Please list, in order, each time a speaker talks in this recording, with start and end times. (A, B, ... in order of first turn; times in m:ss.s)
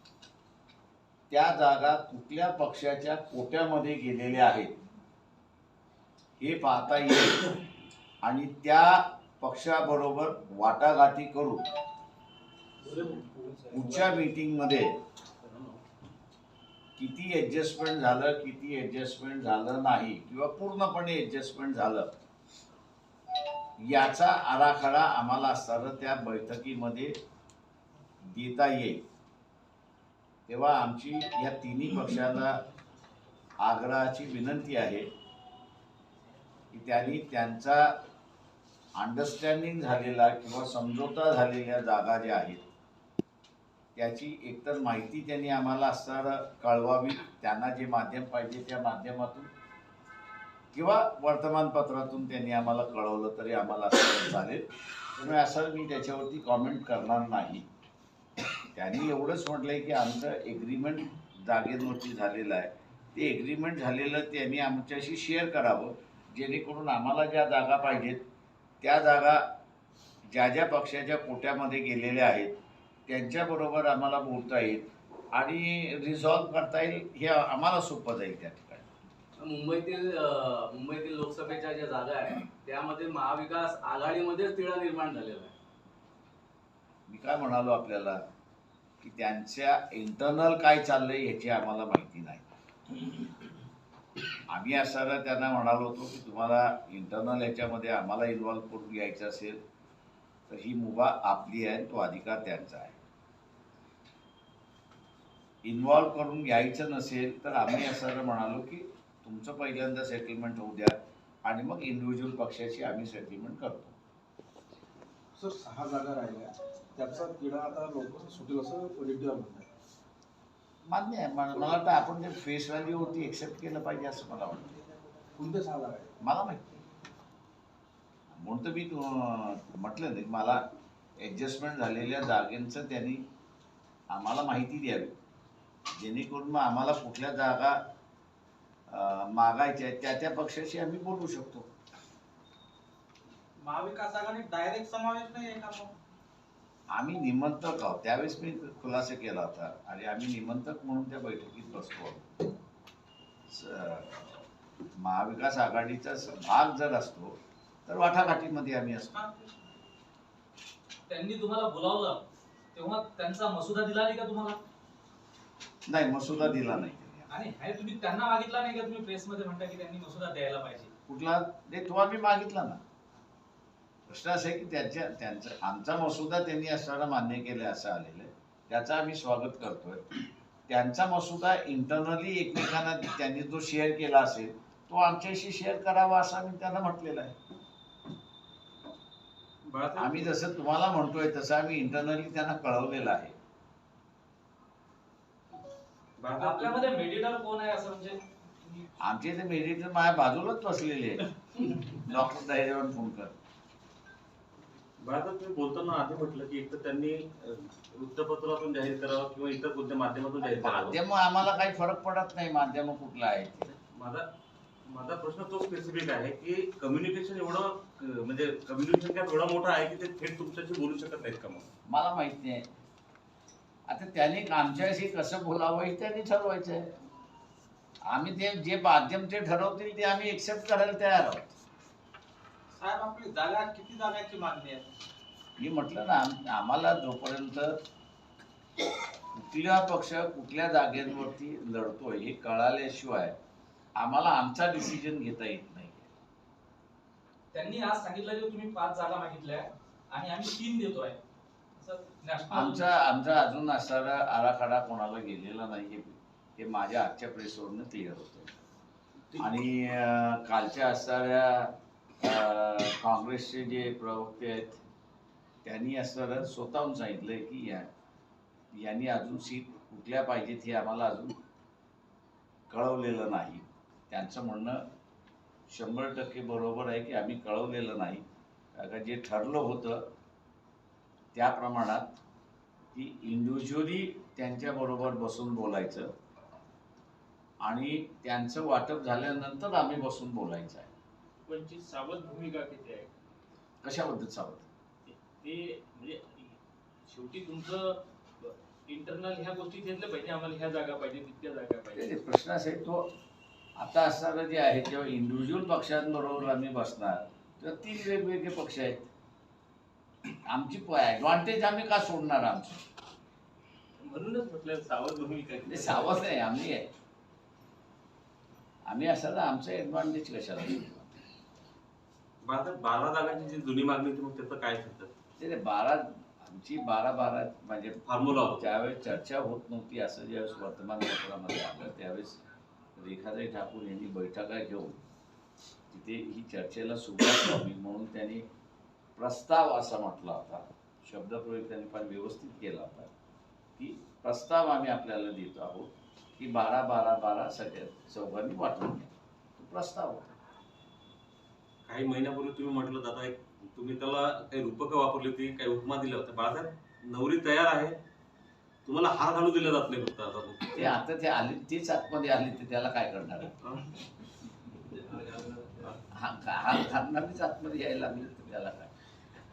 0:01.3-0:04.8 A
0:06.4-0:07.6 A
0:08.2-0:11.6 A
0:12.8-0:14.0 B
0:13.7-0:15.0 A
0:17.0-0:22.1 A
0:23.8-0:27.2 A
0:28.3-0:29.0 A
0:30.5-0:32.6 A
0:33.6-0:35.1 A
0:36.7-0:38.0 A
0:39.0-0:42.6 A
0:44.0-0:49.5 A
0:50.7-0:54.6 A
0:55.2-0:57.7 A
0:58.7-1:08.2 A
1:08.8-1:09.4 A
1:10.3-1:12.5 A
1:13.1-1:18.9 A
1:19.4-1:25.5 C
1:27.1-1:28.2 A
1:29.0-1:32.5 A
1:34.5-1:39.6 A
1:40.5-1:43.0 A
1:45.6-1:54.0 A
1:55.4-1:59.7 B
2:00.9-2:04.7 A
2:05.4-2:06.1 B
2:06.2-2:06.8 A
2:08.3-2:10.6 A
2:11.2-2:13.2 A
2:14.1-2:15.1 A
2:15.9-2:17.8 A
2:18.9-2:21.7 A
2:23.6-2:25.9 D
2:26.9-2:32.4 A
2:33.5-2:39.2 A
2:39.1-2:39.6 D
2:41.1-2:42.2 E
2:42.7-2:44.6 E
2:45.9-2:47.3 A
2:47.3-2:50.9 E
2:51.1-2:52.8 A
2:54.1-3:00.0 A
3:00.7-3:07.4 A
3:09.7-3:10.3 F
3:10.0-3:13.4 A
3:16.2-3:16.9 F
3:16.4-3:18.9 E
3:19.0-3:23.3 A
3:25.0-3:31.0 F
3:30.6-3:33.7 A
3:33.9-3:34.3 F
3:34.9-3:41.7 F
3:41.9-3:42.7 A
3:43.9-3:46.9 A
3:48.1-3:51.5 A
3:52.7-3:54.9 D
3:55.6-3:57.8 A
3:59.3-4:03.4 A
4:04.0-4:06.1 A
4:07.5-4:11.2 E
4:11.8-4:12.8 E
4:12.5-4:18.5 A
4:19.4-4:24.8 A
4:25.6-4:27.9 A
4:28.7-4:31.4 A
4:32.7-4:34.8 A
4:35.7-4:40.0 A
4:41.3-4:42.2 A
4:42.9-4:46.1 A
4:47.6-4:50.9 A
4:51.5-4:53.1 G
4:53.8-4:54.7 A
4:55.1-4:56.6 G
4:57.1-5:02.1 G
5:01.9-5:03.1 A
5:03.8-5:09.1 A
5:10.5-5:12.8 A
5:14.0-5:16.1 F
5:15.7-5:16.9 A
5:18.9-5:21.2 A
5:22.4-5:25.1 F
5:25.4-5:32.4 A
5:28.1-5:28.7 F
5:33.0-5:35.0 A
5:35.9-5:38.4 A
5:39.2-5:43.1 A
5:43.8-5:50.3 A
5:51.9-5:58.0 F
5:58.8-6:00.9 F
6:00.8-6:03.6 A
6:05.2-6:05.6 G
6:06.1-6:08.9 A